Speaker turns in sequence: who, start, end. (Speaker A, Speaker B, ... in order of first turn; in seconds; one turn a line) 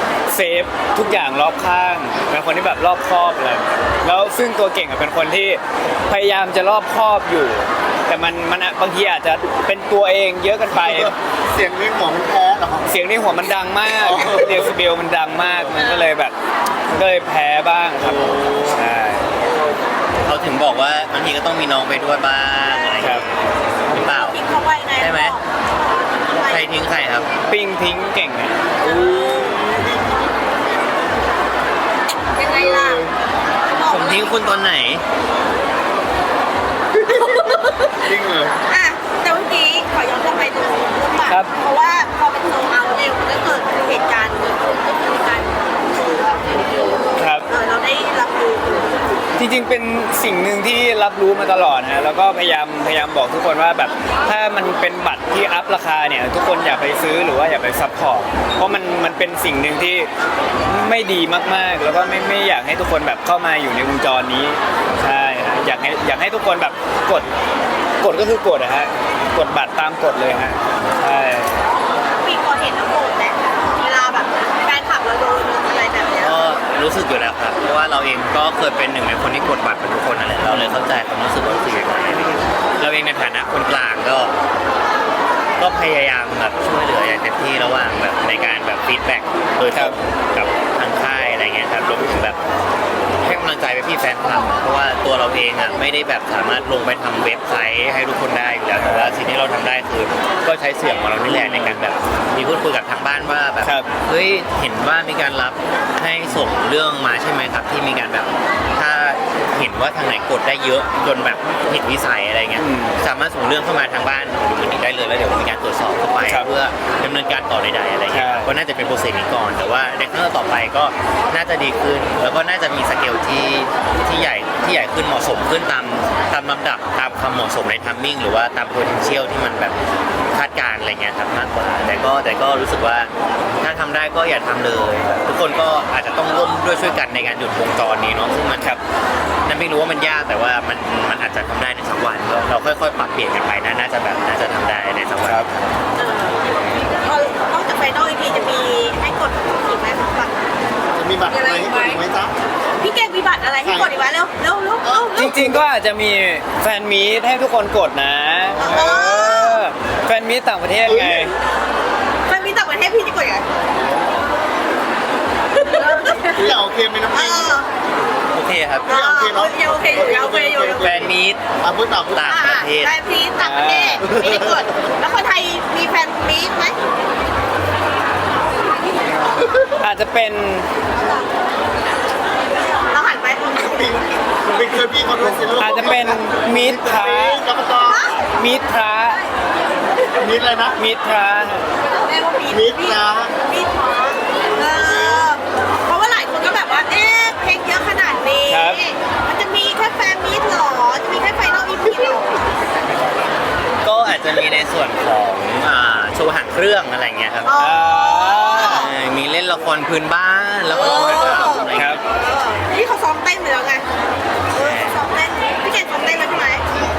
Speaker A: 0.3-11.1
Speaker B: 10.8-12.9
Speaker A: 12.9-16.3
Speaker B: 14.0-14.7
Speaker C: 15.7-16.1
Speaker A: 16.9-19.3
Speaker B: 18.0-18.6
Speaker D: 20.2-24.4
Speaker C: 22.7-23.1
Speaker A: 23.0-23.2
Speaker C: 23.9-26.7
Speaker D: 25.0-25.4
Speaker D: 26.5-27.3
Speaker A: 27.5-28.6
Speaker C: 28.8-29.7
Speaker B: 28.8-30.2
Speaker C: 32.3-33.1
Speaker B: 32.5-33.1
Speaker C: 33.7-34.7
Speaker D: 33.9-35.0
Speaker B: 36.9-37.4
Speaker C: 37.1-38.1
Speaker B: 38.0-38.6
Speaker C: 38.7-49.2
Speaker A: 47.2-47.5
Speaker A: 49.4-60.1
Speaker A: 60.6-67.3
Speaker A: 68.0-71.6
Speaker C: 72.2-76.6
Speaker D: 76.2-84.3
Speaker D: 85.6-92.4
Speaker D: 93.2-138.8
Speaker A: 98.8-99.2
Speaker A: 101.3-101.8
Speaker A: 103.6-103.9
Speaker A: 112.6-113.0
Speaker A: 118.1-118.5
Speaker D: 139.4-145.5
Speaker C: 146.0-150.4
Speaker B: 150.9-152.3
Speaker C: 151.3-152.0
Speaker C: 152.8-155.5
Speaker B: 153.6-153.9
Speaker A: 155.1-161.3
Speaker C: 158.6-159.6
Speaker B: 160.8-161.3
Speaker C: 162.2-163.4
Speaker C: 165.5-166.6
Speaker B: 166.0-167.5
Speaker C: 167.1-167.7
Speaker D: 168.3-168.9
Speaker C: 168.8-171.0
Speaker B: 168.9-172.3
Speaker D: 170.8-171.4
Speaker D: 172.1-172.9
Speaker C: 172.2-176.8
Speaker A: 173.4-174.0
Speaker B: 174.0-174.5
Speaker A: 179.8-180.7
Speaker C: 182.9-184.0
Speaker B: 184.4-188.1
Speaker A: 185.5-187.4
Speaker C: 187.8-188.2
Speaker A: 188.3-189.2
Speaker B: 190.2-190.8
Speaker A: 190.8-191.6
Speaker C: 192.0-202.3
Speaker B: 192.5-193.3
Speaker B: 194.5-195.3
Speaker A: 198.5-198.8
Speaker D: 203.8-207.6
Speaker C: 207.4-208.9
Speaker A: 207.6-208.9
Speaker D: 208.5-212.0
Speaker C: 210.7-213.8
Speaker A: 211.8-212.0
Speaker C: 214.5-216.6
Speaker D: 214.5-215.0